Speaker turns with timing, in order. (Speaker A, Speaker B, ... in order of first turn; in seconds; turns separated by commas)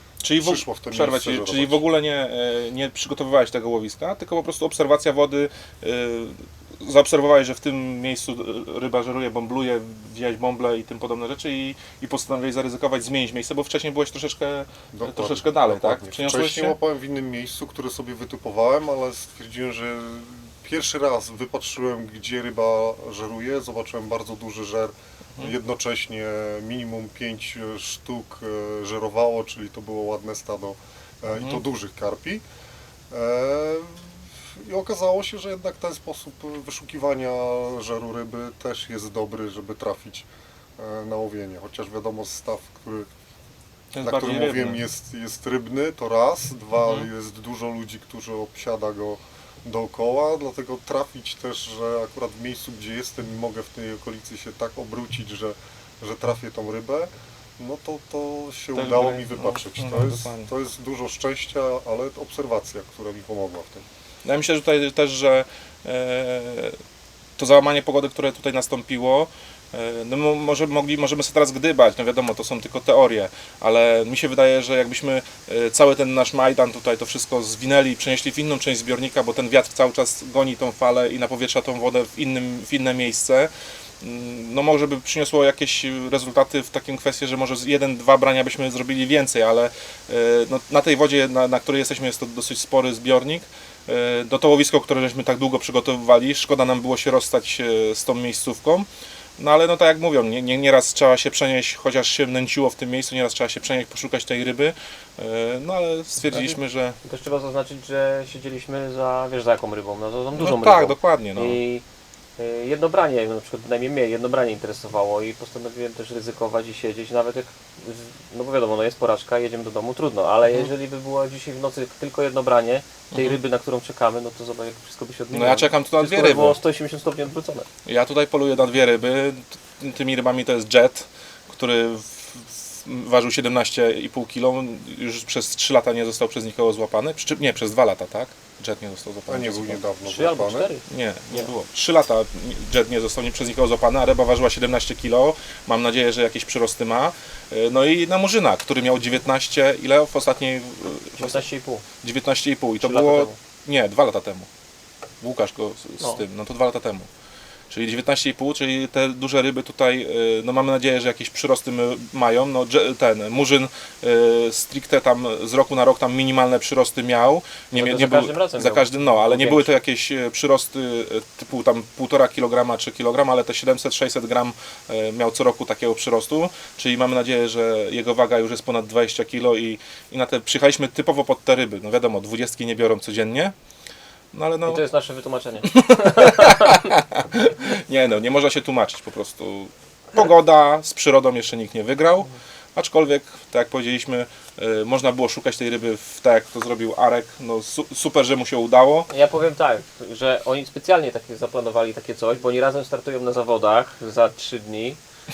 Speaker A: 0.2-16.8, Speaker B: 0.4-1.8, Speaker B: 14.9-32.4, Speaker B: 33.1-40.3, Speaker B: 40.8-43.1, Speaker A: 43.9-44.8, Speaker B: 44.0-63.8, Speaker A: 58.7-60.5, Speaker A: 64.2-66.8, Speaker A: 67.4-83.5, Speaker A: 84.0-98.9, Speaker A: 99.4-107.0, Speaker C: 106.3-111.8, Speaker A: 110.3-111.6, Speaker C: 112.4-127.7, Speaker A: 123.1-123.4, Speaker A: 125.3-126.6, Speaker A: 127.8-139.8, Speaker B: 139.3-140.7, Speaker C: 140.1-141.5, Speaker A: 140.9-151.5, Speaker C: 151.2-151.8, Speaker A: 152.0-154.5, Speaker C: 152.8-153.4, Speaker A: 155.2-157.1, Speaker A: 157.7-183.5, Speaker C: 167.7-169.7, Speaker A: 184.3-184.8, Speaker C: 184.7-186.9, Speaker A: 185.7-199.1, Speaker C: 199.1-205.0